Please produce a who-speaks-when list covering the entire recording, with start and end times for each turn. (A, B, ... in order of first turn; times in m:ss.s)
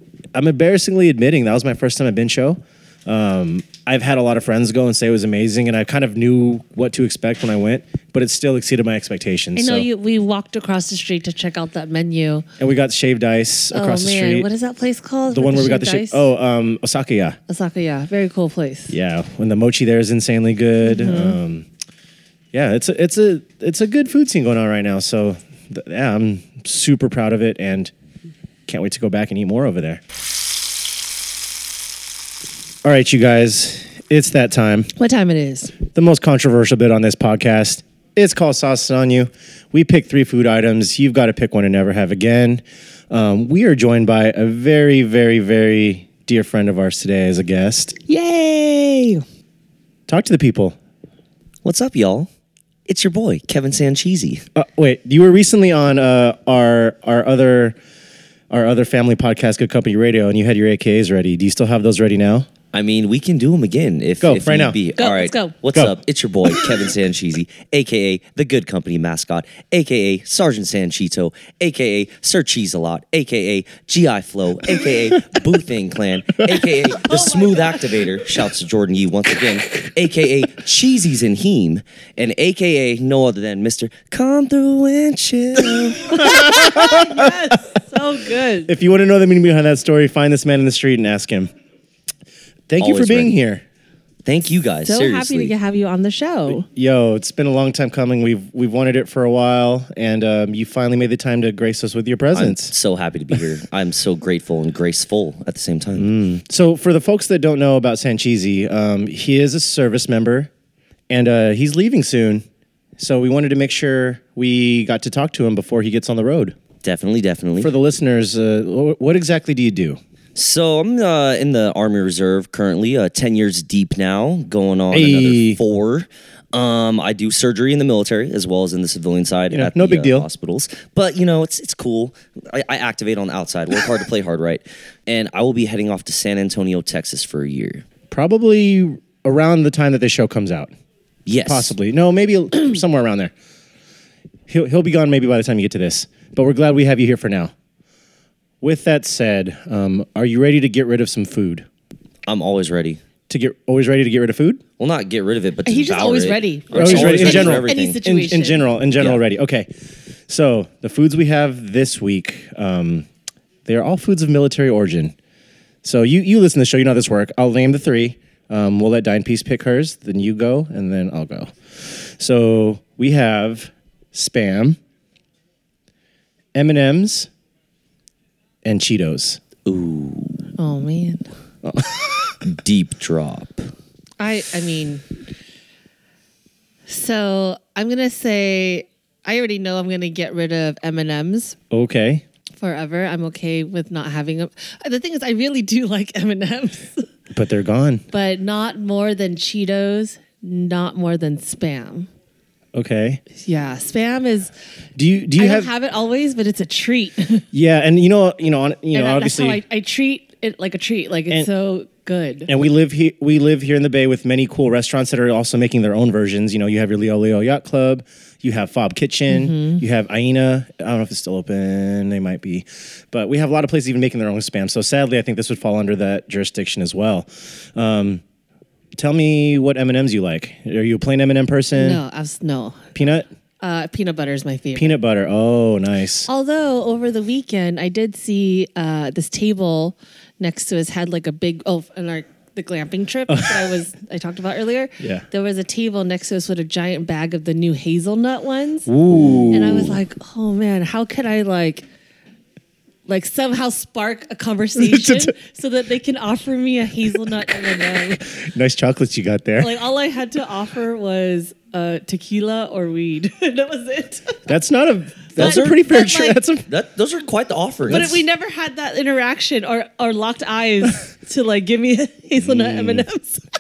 0:00.3-0:09.9 A
0:09.6-0:12.4 B
0:12.6-0:14.5 A
0:13.7-0:16.3 B
0:15.3-0:17.4 A
0:17.5-0:18.9 B
0:18.9-0:21.7 A
0:20.8-0:21.4 B
0:22.5-0:27.9 A
0:28.7-0:30.0 A
0:32.8-0:34.9 A
0:35.0-0:35.8 B
0:35.9-0:48.0 A
0:48.1-0:49.2 B
0:50.1-0:50.8 A
0:51.6-0:52.3 C
0:52.9-0:54.4 C
0:54.6-0:57.8 A
0:58.5-1:02.5 A
1:02.7-1:26.2 C
1:04.2-1:04.8 A
1:05.0-1:05.6 B
1:17.0-1:18.0 B
1:26.1-1:28.7 B
1:26.1-1:27.4 A
1:28.7-1:31.5 A
1:32.7-1:33.6 A
1:32.8-1:33.4 C
1:34.2-1:35.5 C
1:34.8-1:36.6 B
1:36.5-1:42.7 A
1:42.3-1:46.1 C
1:46.0-1:50.5 A
1:51.1-1:52.4 A
1:53.0-1:56.6 A
1:56.8-1:57.7 C
1:57.6-2:00.0 A
2:00.4-2:17.8 C
2:04.9-2:05.6 A
2:09.5-2:10.3 A
2:18.1-2:20.7 A
2:21.3-2:21.7 C
2:21.4-2:23.3 A
2:24.5-2:27.5 A
2:28.6-2:31.7 A
2:32.3-2:33.0 C
2:33.3-2:34.6 A
2:34.8-2:38.0 C
2:35.6-2:38.7 B
2:36.7-2:39.7 A
2:40.3-2:43.1 A
2:43.7-2:45.2 A
2:45.8-2:54.8 A
2:56.5-2:57.3 A
2:58.6-2:59.4 A
2:59.7-3:00.4 C
3:00.6-3:01.2 B
3:01.6-3:02.4 A
3:02.4-3:03.7 C
3:04.2-3:05.0 B
3:06.9-3:11.6 B
3:11.7-3:12.2 A
3:12.6-3:17.1 B
3:17.3-3:18.0 A
3:18.1-3:22.1 B
3:22.7-3:23.2 A
3:23.4-3:24.5 B
3:25.0-3:25.7 A
3:25.4-3:27.4 B
3:27.5-3:29.6 A
3:28.9-3:32.5 B
3:32.5-3:48.2 A
3:39.3-3:39.8 B
3:49.0-3:52.0 A
3:51.8-3:52.8 B
3:53.0-3:53.3 A
3:53.6-3:55.0 B
3:54.8-3:56.3 A
3:56.3-4:08.9 B
4:03.3-4:03.6 A
4:05.0-4:05.2 A
4:08.9-4:10.0 A
4:09.5-4:11.8 B
4:13.1-4:18.2 B
4:14.8-4:15.3 A
4:18.2-4:19.7 A
4:19.6-4:24.5 B
4:24.5-4:26.7 A
4:25.4-4:25.8 C
4:25.4-4:26.4 B
4:26.7-4:28.2 C
4:27.9-4:33.4 B
4:32.4-4:33.1 A